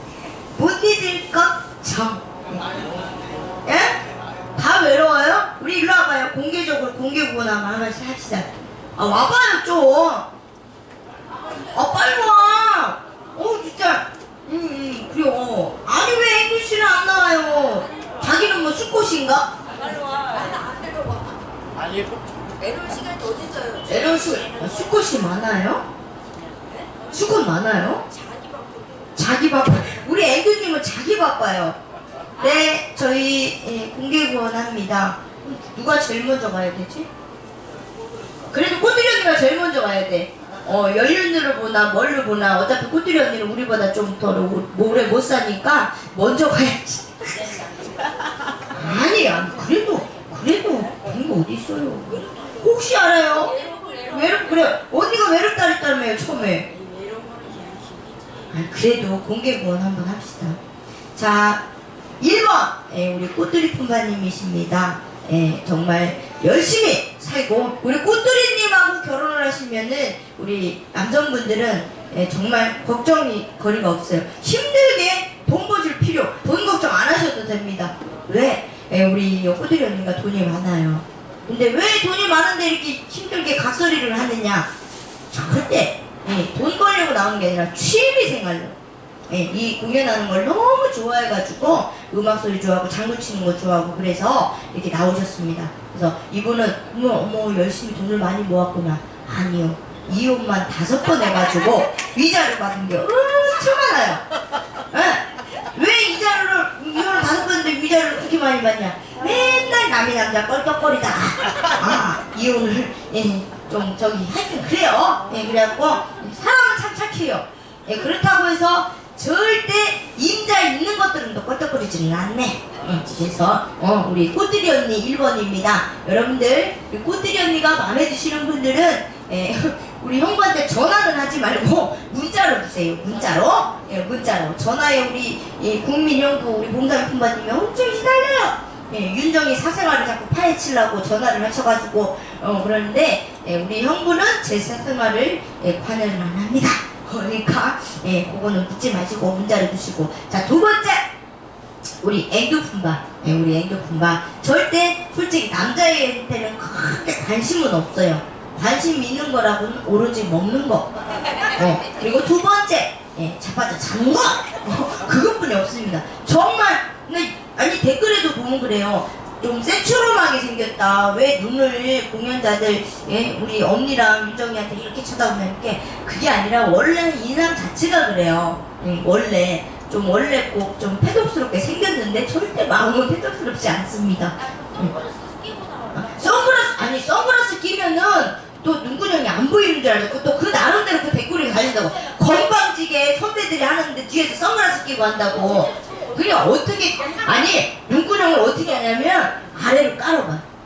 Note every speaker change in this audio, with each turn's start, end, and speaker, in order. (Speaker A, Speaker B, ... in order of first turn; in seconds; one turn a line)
Speaker A: 0.5-2.8
Speaker A: 3.6-4.0
Speaker A: 4.5-10.3
Speaker A: 11.7-19.5
Speaker B: 19.9-21.4
Speaker B: 22.6-24.0
Speaker A: 23.8-25.9
Speaker A: 27.1-28.1
Speaker B: 28.1-29.0
Speaker A: 29.1-31.8
Speaker A: 32.4-37.1
Speaker A: 38.5-47.7
Speaker A: 48.7-56.7
Speaker B: 53.6-54.1
Speaker B: 56.8-58.2
Speaker A: 58.5-60.6
Speaker A: 61.1-61.6
Speaker A: 62.2-84.7
Speaker A: 85.3-88.8
Speaker A: 89.3-104.2
Speaker A: 104.9-151.1
Speaker A: 152.0-160.9
Speaker A: 161.5-185.0
Speaker B: 184.9-185.9
Speaker A: 185.9-200.4